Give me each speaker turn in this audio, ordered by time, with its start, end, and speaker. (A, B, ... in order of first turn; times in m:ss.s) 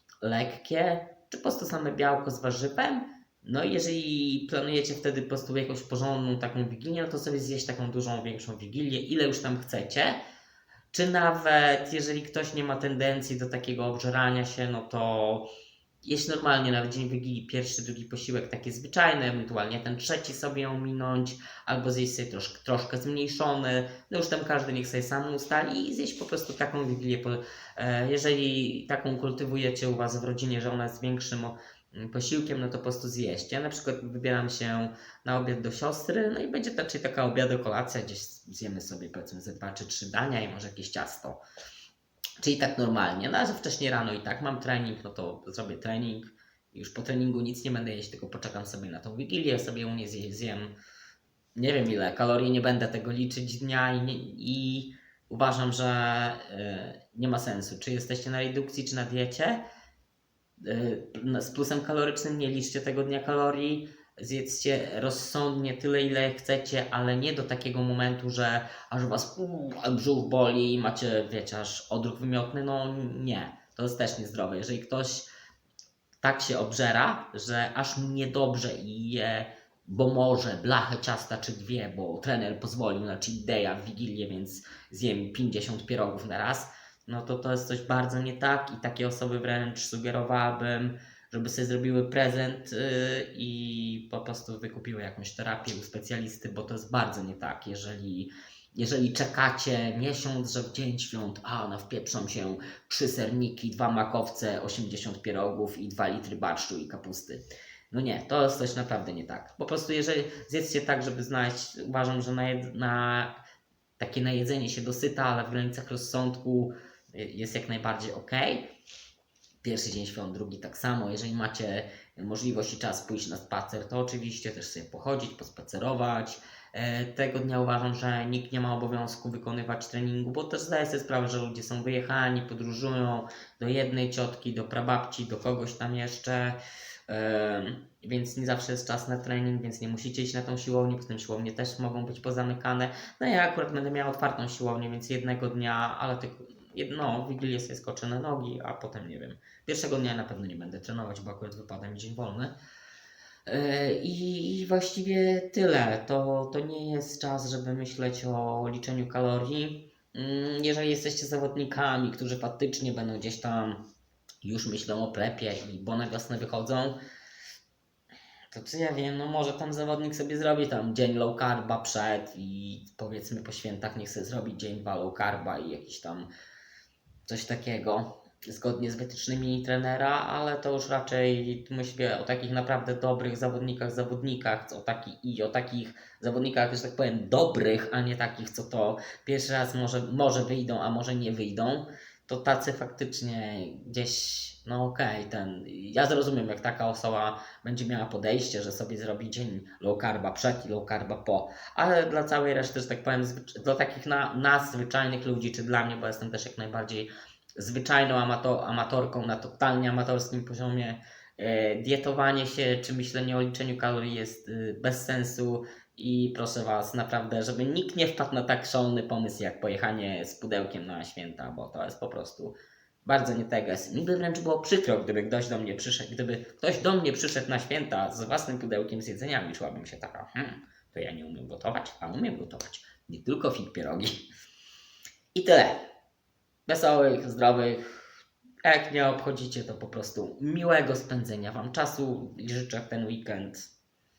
0:00.2-0:10.2 A
0:10.9-0:15.5 A
0:16.0-0:41.4 A
0:42.4-0:50.8 A
0:51.6-0:59.6 A
1:00.6-1:15.3 A
1:16.2-1:53.4 A
1:54.0-1:58.7 A
1:59.6-2:16.6 A
2:17.1-2:32.5 A
2:33.5-2:43.8 A
2:44.4-2:47.0 A
2:48.5-2:56.3 A
2:57.3-3:54.2 A
3:55.3-3:55.8 A
3:56.7-3:58.0 A
3:58.6-4:03.7 A